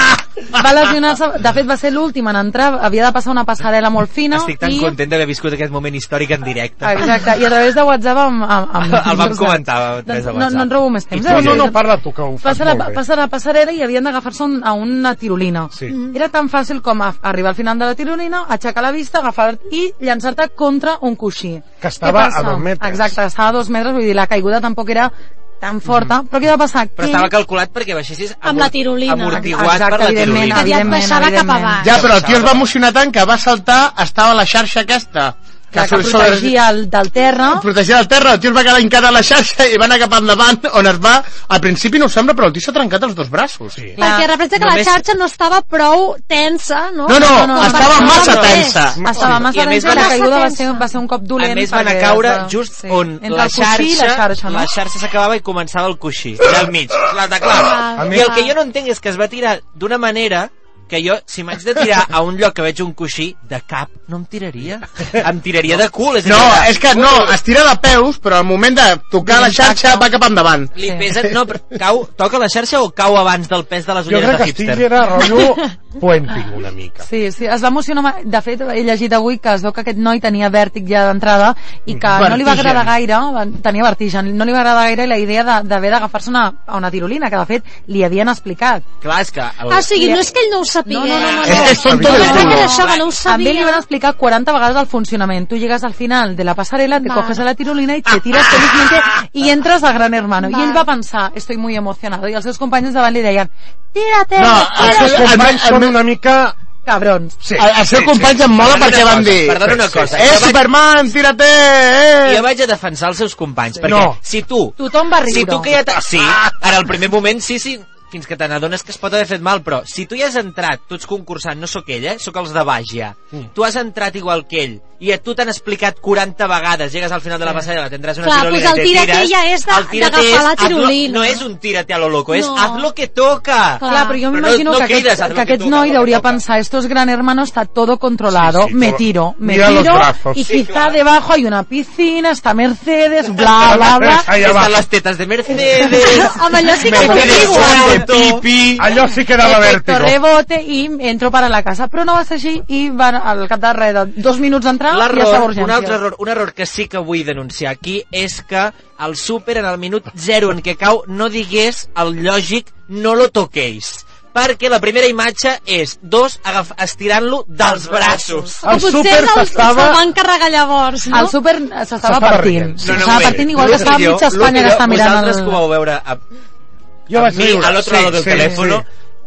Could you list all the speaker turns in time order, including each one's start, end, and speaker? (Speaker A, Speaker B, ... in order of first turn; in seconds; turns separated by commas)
Speaker A: 0.5-5.0, Speaker B: 4.3-7.3, Speaker A: 6.8-11.9, Speaker B: 8.8-11.7, Speaker C: 11.1-13.0, Speaker A: 12.4-27.3, Speaker C: 15.7-16.0, Speaker D: 15.9-16.1, Speaker C: 21.8-23.2, Speaker B: 27.0-31.1, Speaker D: 28.4-29.6, Speaker A: 29.4-31.8, Speaker D: 30.4-31.9, Speaker E: 31.8-36.5, Speaker B: 31.8-32.7, Speaker A: 35.7-37.7, Speaker E: 37.5-43.8, Speaker A: 44.0-44.3, Speaker D: 44.0-48.8, Speaker B: 44.5-45.0, Speaker E: 47.1-49.3, Speaker A: 47.2-48.4, Speaker B: 47.9-48.6, Speaker C: 49.0-49.5, Speaker A: 49.0-54.7, Speaker B: 49.2-50.2, Speaker D: 49.8-50.8, Speaker B: 51.4-66.8, Speaker D: 57.5-58.5, Speaker C: 58.0-58.3, Speaker E: 66.2-70.7, Speaker A: 69.2-70.1, Speaker B: 70.7-74.8, Speaker A: 70.8-71.1, Speaker C: 74.1-77.1, Speaker A: 77.0-88.9, Speaker C: 81.9-82.8, Speaker E: 82.2-82.7, Speaker B: 89.0-89.9, Speaker D: 89.7-93.8, Speaker A: 89.9-90.3, Speaker A: 90.8-92.6, Speaker B: 91.1-93.1, Speaker E: 91.4-92.8, Speaker C: 91.7-92.5, Speaker A: 93.2-105.3, Speaker D: 97.0-97.4, Speaker D: 100.4-100.8, Speaker E: 104.3-106.0, Speaker C: 104.5-106.5, Speaker A: 106.8-107.4, Speaker C: 107.4-108.4, Speaker E: 107.6-112.5, Speaker B: 108.6-110.6, Speaker B: 112.2-136.4, Speaker A: 113.8-114.1, Speaker C: 113.8-114.2, Speaker A: 114.8-115.7, Speaker D: 128.2-131.4, Speaker D: 132.3-132.9, Speaker D: 133.8-134.2, Speaker A: 133.8-144.3, Speaker C: 138.3-140.4, Speaker B: 140.4-141.0, Speaker C: 143.5-144.8, Speaker B: 144.3-148.7, Speaker D: 146.0-147.8, Speaker C: 146.9-150.2, Speaker A: 149.3-156.0, Speaker B: 154.9-168.6, Speaker A: 167.6-168.6, Speaker C: 168.6-170.0, Speaker D: 168.7-171.3, Speaker A: 171.1-175.6, Speaker C: 172.0-174.0, Speaker B: 172.8-176.2, Speaker C: 177.1-178.8, Speaker B: 177.1-178.8